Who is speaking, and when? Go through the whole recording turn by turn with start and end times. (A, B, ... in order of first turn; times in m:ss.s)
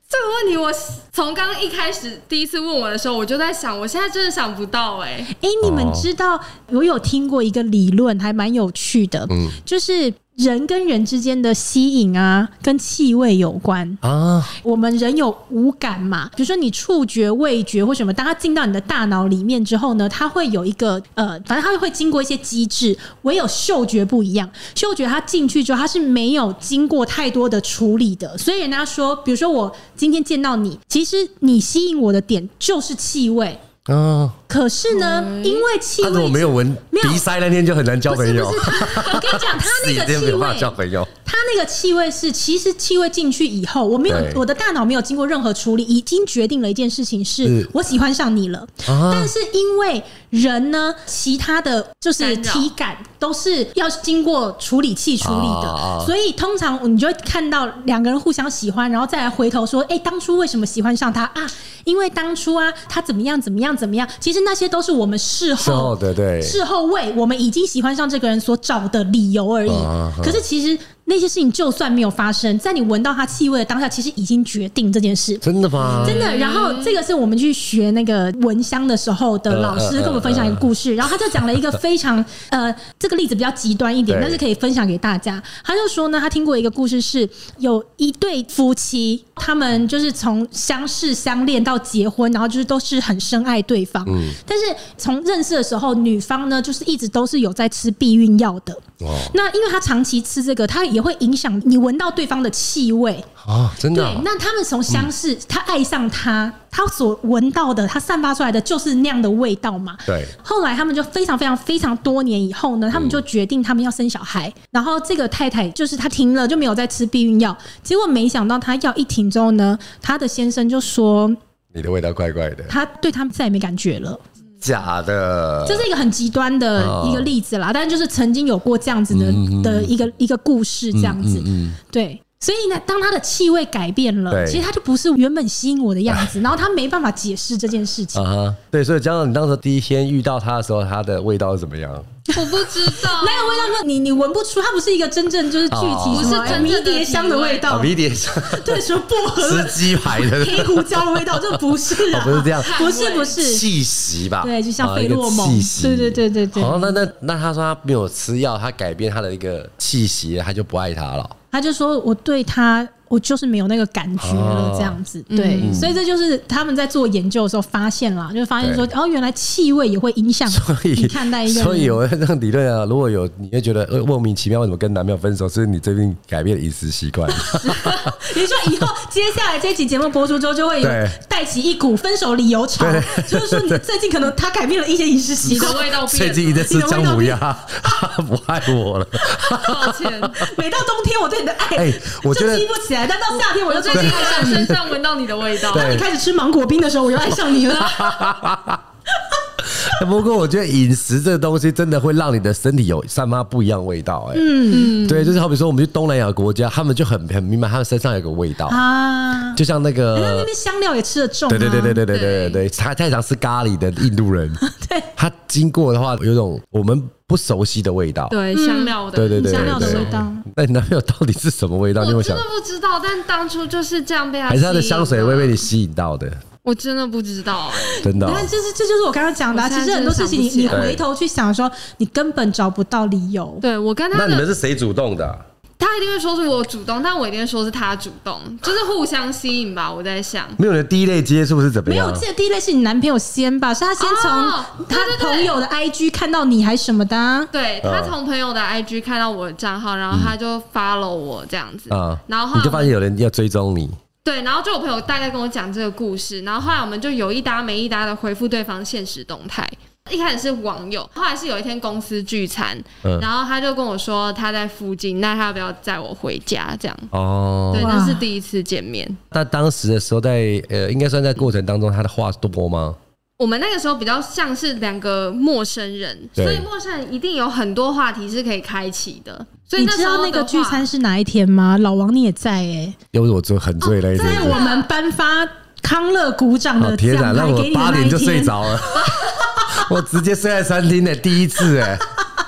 0:00.1-0:05.3 A
0:05.3-0:14.0 B
0:05.6-0:06.1 C
0:09.3-0:09.6 C
0:14.0-0:14.5 C
0:14.6-0:33.6 B
0:33.9-0:34.4 C
0:34.5-0:37.2 B
0:34.9-0:35.7 A
0:36.0-0:41.1 C
0:38.1-1:15.4 B
0:44.1-0:44.4 C
0:47.4-0:47.7 C
0:48.9-0:49.3 C
0:52.2-0:52.7 A
0:55.2-0:56.1 C
1:05.6-1:06.6 C
1:09.7-1:10.4 C
1:15.4-1:16.2 C
1:15.8-1:17.0 A
1:16.0-1:43.3 B
1:19.5-1:20.7 C
1:24.1-1:24.4 C
1:34.1-1:34.4 C
1:39.0-1:39.4 C
1:43.4-1:44.3 C
1:43.9-2:01.4 B
1:50.1-1:50.3 C
1:52.9-1:53.2 C
2:01.7-2:02.7 C
2:02.7-2:04.2 B
2:04.6-2:05.9 C
2:05.6-2:18.2 B
2:06.8-2:07.3 C
2:09.1-2:09.9 C
2:10.9-2:11.8 C
2:14.3-2:14.6 C
2:18.2-2:22.1 C
2:22.3-2:33.6 B
2:22.3-2:23.7 A
2:25.7-2:26.8 C
2:26.1-2:27.8 A
2:27.7-2:32.8 C
2:32.6-2:33.4 A
2:33.4-2:41.4 C
2:34.4-2:37.0 B
2:41.5-2:52.0 B
2:44.2-2:45.0 C
2:45.3-2:45.8 A
2:45.6-2:46.0 C
2:48.6-2:48.9 C
2:50.5-2:58.0 C
2:57.3-3:05.8 B
3:00.8-3:01.2 C
3:02.8-3:03.8 C
3:05.4-3:10.2 C
3:05.5-3:06.7 A
3:06.7-3:07.4 B
3:09.5-3:10.4 A
3:10.4-3:14.8 B
3:11.8-3:12.7 C
3:13.5-3:16.1 A
3:13.9-3:14.9 C
3:15.7-3:16.1 C
3:15.7-3:18.4 B
3:17.3-3:18.8 C
3:19.6-3:28.8 C
3:24.3-3:25.0 B
3:24.7-3:25.4 A
3:28.7-3:29.6 B
3:29.6-3:30.5 C
3:30.1-3:32.0 B
3:31.5-3:34.6 C
3:32.1-3:32.6 A
3:34.6-3:35.1 B
3:35.2-3:38.4 C
3:38.3-3:40.2 A
3:38.5-3:40.4 B
3:39.1-3:42.4 C
3:42.0-3:45.7 A
3:44.5-3:46.4 C
3:46.6-3:48.5 A
3:47.9-3:53.6 B
3:48.0-3:48.5 C
3:49.5-3:50.8 A
3:50.7-3:51.0 C
3:53.6-3:54.5 A
3:54.1-3:55.4 C
3:55.8-4:00.6 A
4:00.6-4:02.2 C
4:01.9-4:07.5 B
4:04.0-4:05.6 A
4:07.5-4:12.9 A
4:07.8-4:08.2 C
4:11.9-4:14.0 C
4:14.2-4:27.1 A
4:27.1-4:27.9 C
4:27.7-4:29.2 A
4:27.8-4:28.2 B
4:29.3-4:33.0 C
4:33.4-4:40.9 A
4:36.4-4:36.7 C
4:39.8-4:43.0 B
4:43.1-4:44.6 C
4:44.1-4:49.8 B
4:44.2-4:44.9 A
4:46.8-4:52.1 C